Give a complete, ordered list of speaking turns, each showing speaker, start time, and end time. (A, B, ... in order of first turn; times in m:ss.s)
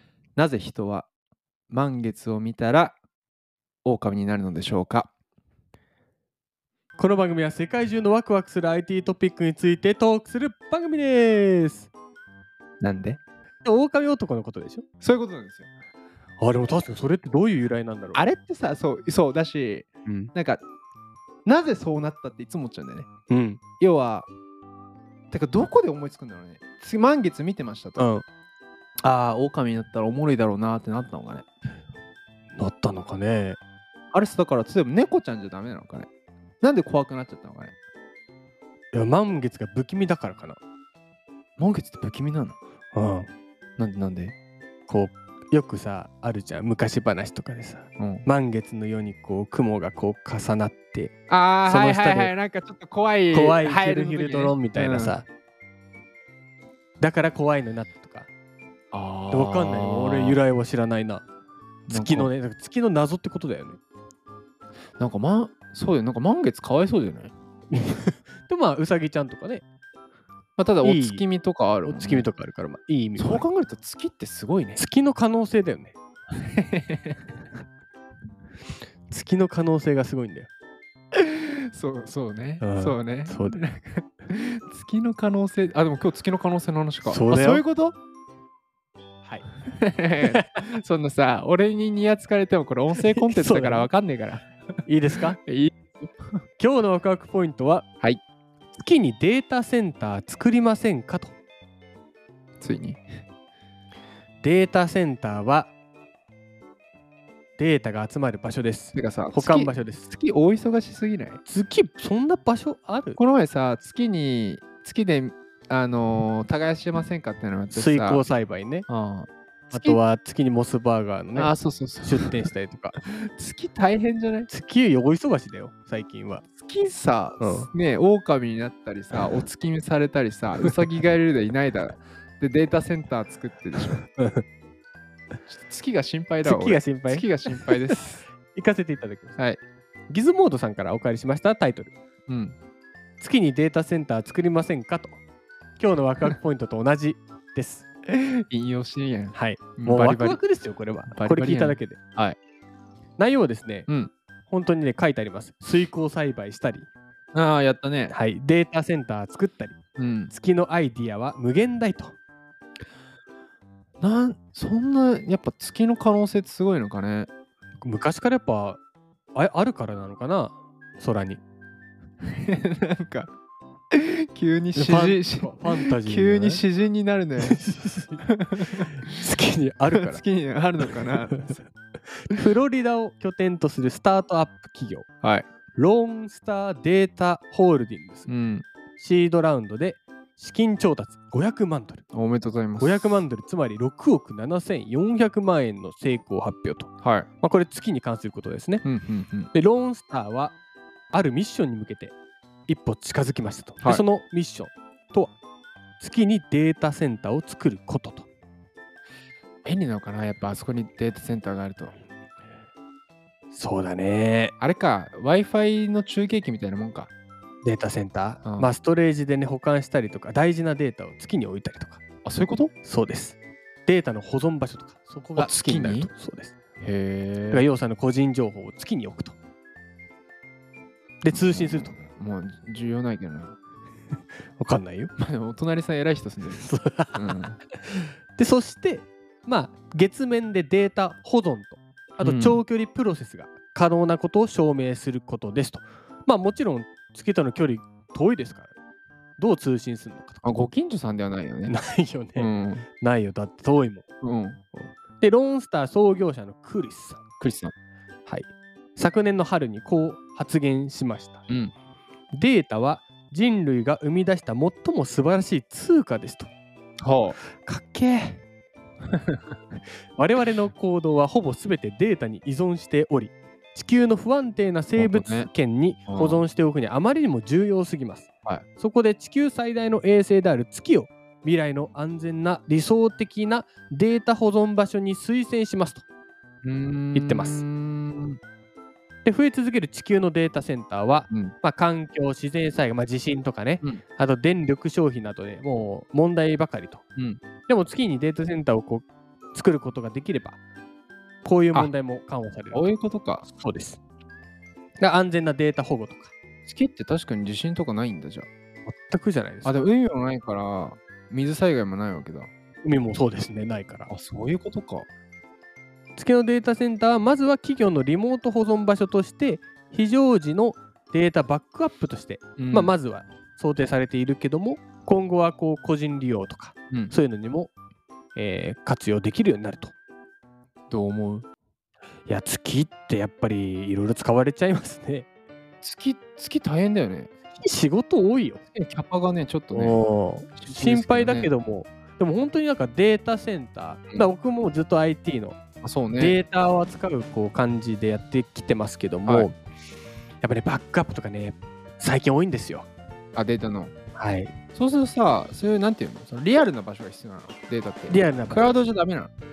0:00.4-0:01.1 A
0:01.7-0:03.0 A
0:03.8-0:05.1 A
0:07.0-0:11.9 B
0:12.8-0:13.2 A
0:13.6-0:14.8 B
0:15.0-0:15.7 A
0:16.4-0:18.3 B
0:18.1-0:20.6 A
0:20.1-0:20.3 B
0:21.5-0:23.1 A
0:23.3-0:23.6 B
0:23.8-0:24.3 A
0:25.3-0:28.1 A
0:28.0-0:28.2 B
0:29.0-0:31.5 A
0:32.6-0:33.6 B
0:34.1-0:36.1 A
0:36.6-0:37.7 A
0:38.9-0:40.6 B
0:41.6-0:42.6 A
0:42.9-0:43.3 B
0:43.8-0:44.4 A
0:44.9-0:51.1 B
0:48.0-0:48.3 A
0:51.3-0:55.2 A
0:51.6-0:52.3 B
0:53.3-0:55.2 B
0:57.0-0:58.3 B
0:58.9-1:00.4 A
0:59.3-1:01.2 B
1:01.9-1:02.3 A
1:01.9-1:03.8 B
1:05.0-1:07.3 A
1:07.7-1:09.6 B
1:10.6-1:12.3 A
1:10.8-1:11.2 B
1:11.8-1:13.4 B
1:13.2-1:14.8 A
1:14.8-1:16.0 B
1:16.4-1:17.2 A
1:19.1-1:20.5 B
1:21.1-1:28.0 A
1:22.6-1:23.6 B
1:27.0-1:27.6 B
1:29.7-1:34.6 A
1:30.3-1:30.7 B
1:33.0-1:33.9 B
1:34.9-1:35.4 B
1:35.4-1:36.1 A
1:36.6-1:37.9 B
1:38.8-1:41.3 B
1:42.6-1:43.0 A
1:44.4-1:45.7 B
1:47.6-1:50.0 B
1:48.9-1:51.4 A
1:51.5-1:53.2 B
1:53.2-1:58.2 A
1:57.7-1:58.9 B
1:58.9-2:00.0 A
1:59.7-2:03.0 B
2:01.4-2:02.5 A
2:03.0-2:04.5 A
2:04.5-2:06.4 B
2:06.6-2:14.0 A
2:07.4-2:07.7 B
2:14.1-2:14.4 B
2:15.5-2:18.2 A
2:16.4-2:19.6 B
2:20.1-2:22.0 B
2:22.3-2:22.6 A
2:23.2-2:25.2 B
2:25.8-2:27.8 B
2:28.1-2:30.4 A
2:29.3-2:32.0 B
2:31.1-2:32.4 A
2:33.2-2:33.9 B
2:34.5-2:36.9 B
2:37.3-2:38.2 A
2:38.1-2:39.8 B
2:40.0-2:40.3 A
2:40.3-2:42.2 B
2:44.0-2:47.3 A
2:47.8-2:48.8 B
2:49.4-2:51.4 B
2:52.2-2:53.3 A
2:53.9-2:57.6 A
2:54.8-2:56.6 B
2:57.4-3:00.2 B
2:58.2-2:59.0 A
2:59.9-3:01.6 A
3:00.8-3:01.7 B
3:02.2-3:05.1 B
3:05.2-3:05.5 A
3:05.7-3:08.3 B
3:08.3-3:08.7 A
3:09.0-3:12.0 B
3:12.1-3:13.2 A
3:12.8-3:18.8 B
3:17.0-3:17.3 A
3:18.8-3:19.5 A
3:19.5-3:20.6 B
3:21.1-3:22.1 B
3:22.7-3:25.3 B
3:26.0-3:28.3 B
3:29.6-3:32.0 A
3:33.5-3:34.5 B
3:34.6-3:37.1 A
3:37.6-3:42.0 B
3:38.4-3:38.7 A
3:42.2-3:42.7 A
3:42.8-3:46.5 B
3:45.4-3:46.1 A
3:46.8-3:47.7 A
3:47.5-3:49.4 B
3:51.2-3:52.0 B
3:51.3-3:53.6 A
3:54.6-3:55.1 B
3:55.2-3:57.6 A
3:56.6-4:08.7 B
4:02.2-4:02.6 A
4:09.4-4:10.5 B
4:10.4-4:11.8 A
4:11.7-4:14.0 B
4:12.4-4:12.9 A
4:14.2-4:14.6 A
4:14.8-4:17.2 B
4:17.4-4:17.7 A
4:18.3-4:21.4 B
4:21.5-4:21.7 A
4:22.3-4:26.5 B
4:27.0-4:27.4 A
4:27.5-4:28.4 B
4:30.2-4:46.0 B
4:35.0-4:35.5 A
4:36.1-4:36.4 A
4:46.6-4:48.4 A
4:47.2-4:47.6 B
4:49.2-4:57.0 B
4:57.7-5:00.6 B
5:01.4-5:04.0 B
5:02.7-5:03.5 A
5:05.0-5:06.3 B
5:06.7-5:08.5 A
5:08.9-5:09.8 B
5:09.6-5:12.5 A
5:12.8-5:14.1 B
5:14.1-5:15.1 A
5:16.2-5:27.7 B
5:22.6-5:22.9 A
5:28.4-5:29.9 B
5:30.9-5:31.5 A
5:32.3-5:35.3 B
5:35.8-5:37.3 A
5:37.6-5:38.6 B
5:38.7-5:40.0 A
5:39.7-5:45.6 B
5:40.6-5:41.5 A
5:45.8-5:46.4 A
5:46.2-5:49.6 B
5:50.4-5:52.9 B
5:53.4-5:53.9 A
5:54.2-5:54.5 B
5:54.7-5:59.3 A
5:58.1-5:58.8 B